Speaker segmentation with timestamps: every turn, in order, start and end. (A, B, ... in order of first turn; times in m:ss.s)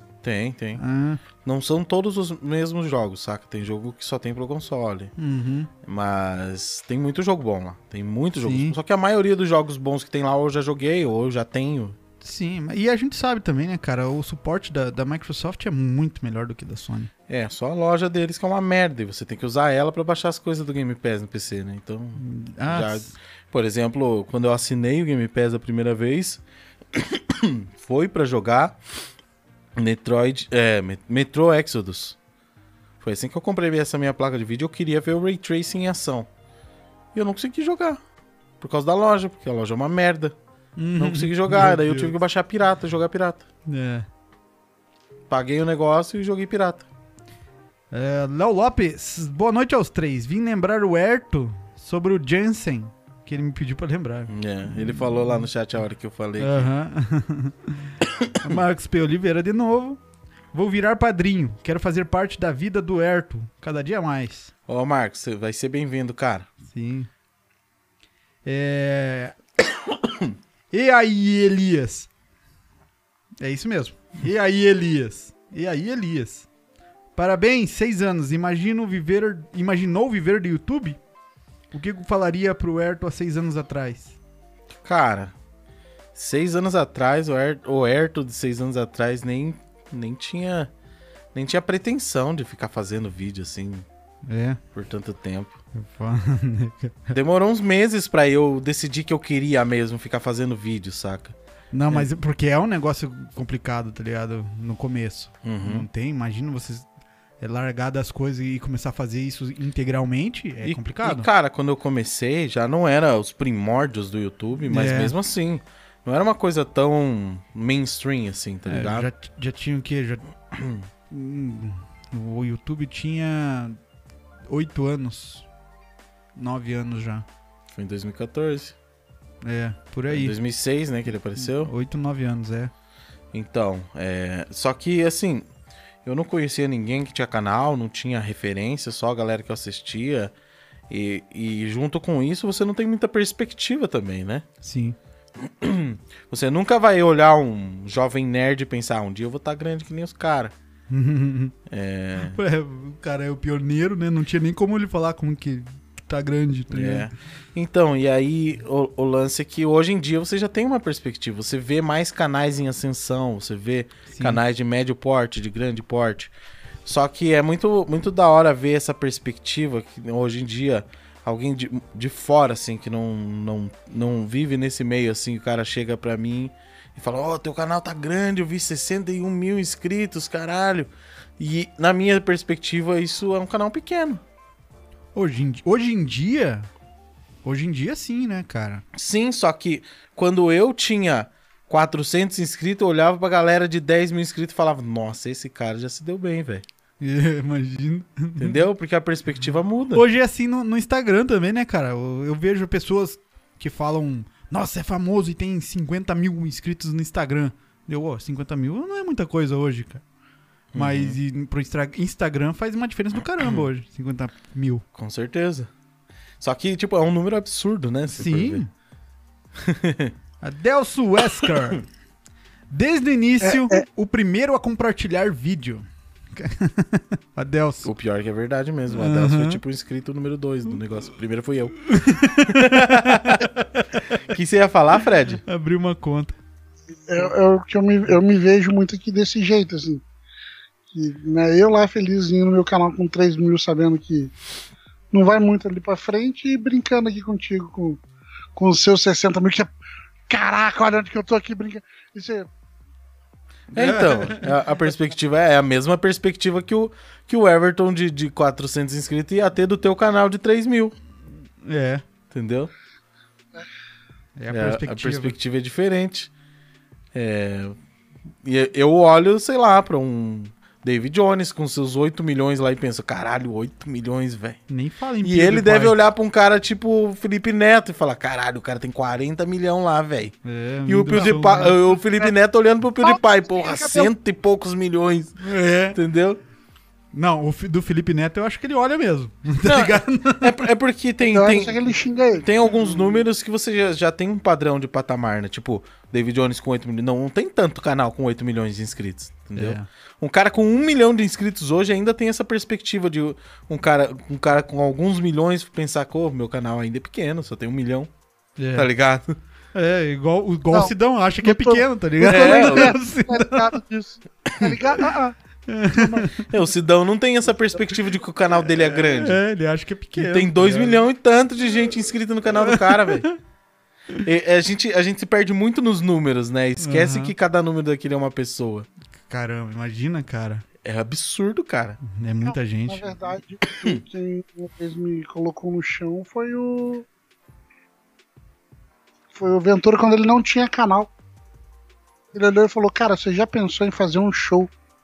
0:00.2-0:00.8 A
0:00.8-0:01.2 B
0:01.4-0:05.1 A
0:05.2-0:05.7 B
0:05.8-0:12.0 A
0:08.4-0:08.7 B
0:12.2-0:17.1 B
0:17.3-0:26.4 A
0:22.2-0:23.1 B
0:26.9-0:28.8 A
0:29.8-0:32.2 A
0:33.0-0:36.3 A
0:37.1-0:38.0 A
0:38.6-0:40.3 A
0:40.8-0:42.1 B
0:41.0-0:43.4 A
0:43.7-0:44.0 B
0:45.3-0:46.8 A
0:47.9-0:55.4 B
0:54.3-0:56.7 A
0:56.4-1:00.0 B
0:58.0-0:58.6 A
1:00.5-1:04.5 B
1:04.7-1:06.5 A
1:06.7-1:07.1 B
1:08.4-1:09.3 B
1:10.7-1:12.1 B
1:13.4-1:16.4 B
1:17.2-1:21.0 B
1:21.7-1:24.1 B
1:24.8-1:25.3 A
1:26.1-1:30.7 A
1:31.3-1:33.8 A
1:34.3-1:34.6 B
1:34.7-1:35.6 A
1:35.7-1:37.2 B
1:37.1-1:41.3 A
1:41.7-1:46.8 B
1:45.4-1:45.9 A
1:47.4-1:51.3 B
1:50.6-1:59.1 A
1:54.7-1:55.1 B
1:58.6-2:00.2 B
2:00.5-2:00.8 A
2:01.1-2:03.8 B
2:04.5-2:05.4 B
2:06.4-2:07.2 B
2:07.7-2:08.7 A
2:09.4-2:10.3 B
2:10.1-2:11.7 A
2:11.4-2:12.7 B
2:13.3-2:15.5 A
2:16.0-2:20.3 A
2:20.9-2:24.4 A
2:24.6-2:25.0 B
2:25.4-2:30.5 A
2:30.9-2:31.5 B
2:31.7-2:32.4 A
2:32.2-2:37.1 B
2:36.7-2:46.3 A
2:44.1-2:44.4 B
2:46.8-3:04.2 A
3:05.1-3:06.7 B
3:07.4-3:08.8 B
3:08.9-3:16.6 A
3:17.0-3:18.6 B
3:18.4-3:20.0 A
3:19.9-3:30.0 B
3:30.7-3:31.2 A
3:30.7-3:34.8 B
3:33.4-3:33.7 A
3:34.9-3:35.7 A
3:36.4-3:38.6 A
3:38.1-3:38.7 B
3:39.6-3:40.1 A
3:40.4-3:41.9 B
3:42.7-3:47.9 B
3:43.5-3:43.8 C
3:47.8-3:53.5 A
3:48.9-3:49.6 B
3:51.8-3:54.2 B
3:54.3-3:55.4 A
3:55.4-3:56.4 B
3:57.1-4:00.0 C
4:00.9-4:04.3 C
4:05.1-4:08.0 C
4:08.6-4:09.7 C
4:10.3-4:12.5 C
4:13.7-4:20.9 A
4:13.7-4:14.6 B
4:21.6-4:22.0 B
4:22.3-4:22.7 A
4:24.4-4:25.3 B
4:24.5-4:26.3 A
4:27.1-4:27.8 A
4:28.4-4:34.6 A
4:34.7-4:36.0 B
4:35.2-4:40.3 A
4:40.4-4:41.8 B
4:40.9-4:45.4 A
4:41.2-4:41.7 C
4:43.0-4:44.1 C
4:45.4-4:46.0 B
4:45.9-4:46.4 A
4:47.1-4:50.7 B
4:49.6-4:51.8 A
4:51.2-4:52.9 C
4:52.4-5:08.1 A
4:59.6-4:59.9 B
5:08.6-5:08.9 B
5:08.7-5:09.4 A
5:09.7-5:13.8 B
5:10.7-5:15.3 C
5:12.2-5:13.0 A
5:15.7-5:16.4 B
5:15.9-5:16.3 C
5:16.4-5:19.4 A
5:18.8-5:21.0 B
5:20.1-5:23.3 A
5:22.6-5:23.3 B
5:24.2-5:28.9 A
5:26.8-5:27.3 B
5:29.3-5:30.6 B
5:30.8-5:32.0 A
5:32.0-5:33.1 B
5:32.4-5:37.1 C
5:39.3-5:41.1 C
5:42.3-5:44.7 C